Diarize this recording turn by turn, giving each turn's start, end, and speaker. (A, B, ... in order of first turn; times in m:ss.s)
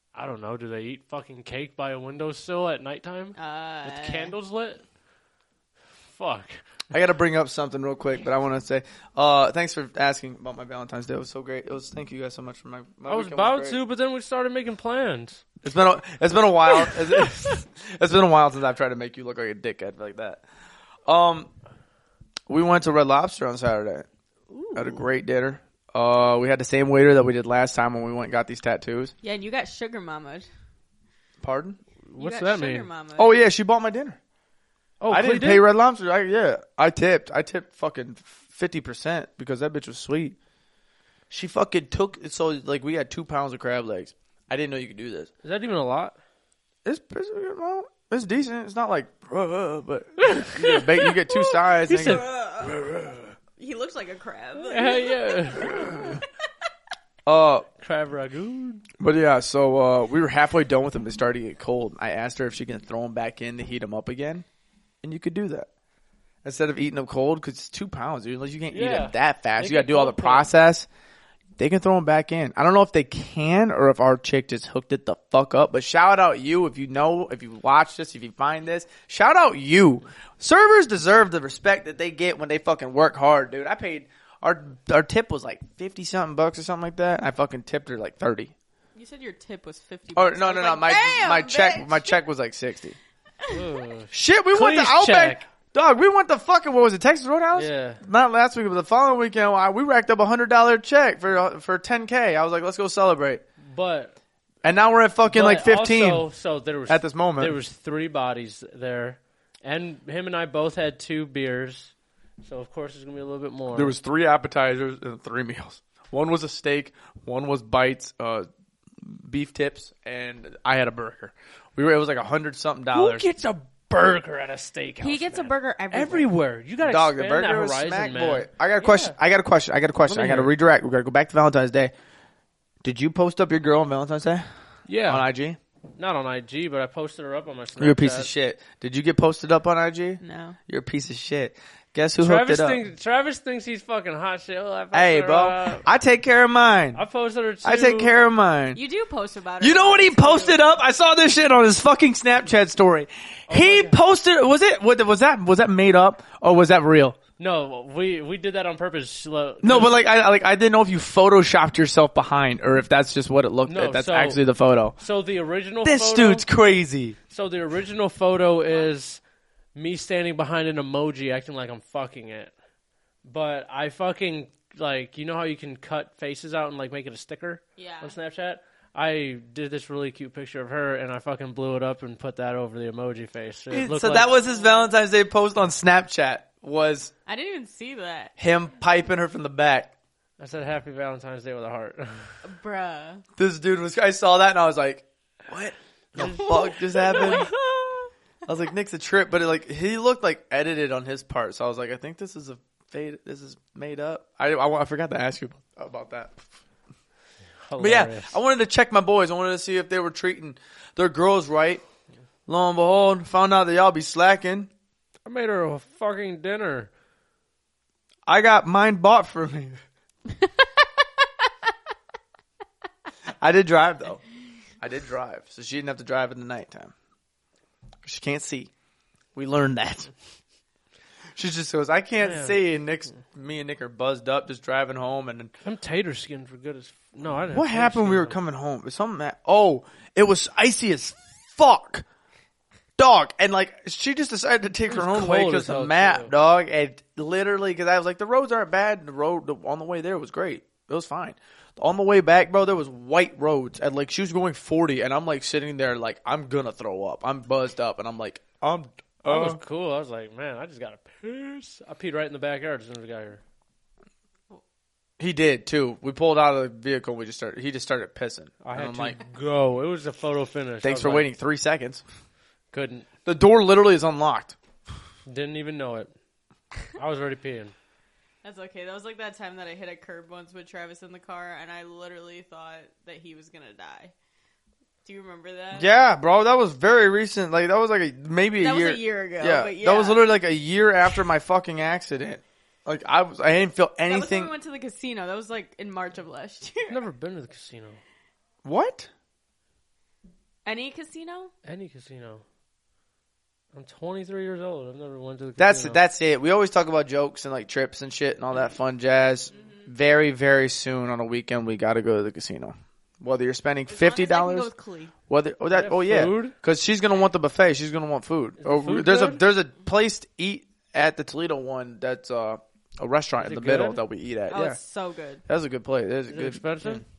0:00.1-0:04.8 A
0:03.4-0:04.3 B
0:06.1-0:06.6 A
0:06.9-0:13.8 C
0:13.0-0:15.4 A
0:15.6-0:20.4 C
0:16.8-0:17.5 A
0:21.0-0:21.5 C
0:22.5-0:24.0 C
0:24.5-0:25.0 A
0:24.7-0:29.1 C
0:29.2-0:30.5 B
0:31.4-0:31.8 C
0:32.1-0:32.9 A
0:32.2-0:33.3 B
0:33.2-0:34.2 C
0:35.0-0:35.7 A
0:35.1-0:40.4 C
0:41.3-0:45.3 C
0:45.4-0:46.2 A
0:46.8-0:53.2 C
0:50.2-0:51.1 A
0:51.9-0:52.2 A
0:51.9-0:52.9 B
0:53.6-0:56.2 B
0:54.6-0:56.0 A
0:55.7-0:56.2 C
0:57.2-0:57.6 C
0:57.8-0:58.8 A
0:59.0-1:04.4 C
1:05.0-1:05.7 C
1:06.4-1:10.9 C
1:08.7-1:10.5 A
1:11.6-1:28.5 C
1:28.9-1:32.2 B
1:30.2-1:33.0 C
1:33.5-1:35.4 A
1:34.1-1:43.4 C
1:37.5-1:38.0 A
1:43.6-1:44.2 A
1:44.6-1:46.2 C
1:45.3-1:53.9 A
1:46.9-1:47.6 C
1:53.7-1:58.5 C
1:59.0-2:03.2 C
2:02.9-2:09.2 A
2:05.0-2:06.3 B
2:06.8-2:11.9 C
2:10.1-2:10.5 A
2:12.8-2:14.4 C
2:14.9-2:15.2 A
2:15.1-2:15.6 C
2:16.0-2:18.3 A
2:17.8-2:22.8 C
2:20.2-2:20.6 B
2:22.2-2:25.8 A
2:24.9-2:27.0 C
2:26.9-2:28.1 A
2:27.6-2:28.8 C
2:28.7-2:30.6 B
2:29.6-2:37.2 C
2:33.5-2:34.0 A
2:37.4-2:40.0 A
2:39.6-2:44.9 C
2:43.6-2:44.4 A
2:45.0-2:46.4 A
2:45.8-2:47.2 C
2:47.3-2:49.2 A
2:49.7-2:52.5 A
2:53.2-3:04.3 A
2:57.8-2:58.1 B
3:03.7-3:07.1 C
3:04.0-3:04.9 B
3:07.2-3:08.3 B
3:08.4-3:09.9 C
3:10.4-3:12.4 A
3:12.4-3:13.2 B
3:13.4-3:17.5 C
3:16.1-3:17.5 A
3:16.2-3:18.1 B
3:18.5-3:26.4 C
3:27.7-3:28.3 A
3:27.8-3:31.8 C
3:32.5-3:34.7 C
3:35.2-3:36.9 A
3:38.3-3:39.8 C
3:43.4-3:44.2 C
3:44.8-3:46.9 C
3:48.0-3:48.7 C
3:49.3-3:50.1 C
3:51.3-3:55.5 C
3:52.2-3:52.6 A
3:55.6-3:58.4 A
3:57.5-4:02.0 C
4:03.0-4:19.6 C
4:04.9-4:06.3 A
4:19.2-4:23.4 A
4:25.2-4:29.2 C
4:28.6-4:31.3 A
4:30.8-4:32.0 C
4:32.7-4:33.1 A
4:33.2-4:34.6 C
4:35.3-4:36.1 A
4:36.9-4:37.7 A
4:38.4-4:44.1 B
4:45.0-4:45.9 B
4:45.7-4:54.5 C
4:48.6-4:50.2 B
4:54.1-4:57.0 B
4:56.9-4:58.0 A
4:58.6-4:59.1 C
5:00.6-5:01.5 B
5:01.6-5:02.4 A
5:03.7-5:06.0 A
5:05.6-5:14.7 C
5:09.5-5:09.9 B
5:13.9-5:15.1 B
5:15.3-5:24.8 C
5:15.7-5:16.5 A
5:18.6-5:19.4 A
5:23.4-5:24.0 A
5:24.5-5:25.4 B
5:25.5-5:27.0 C
5:26.3-5:27.0 A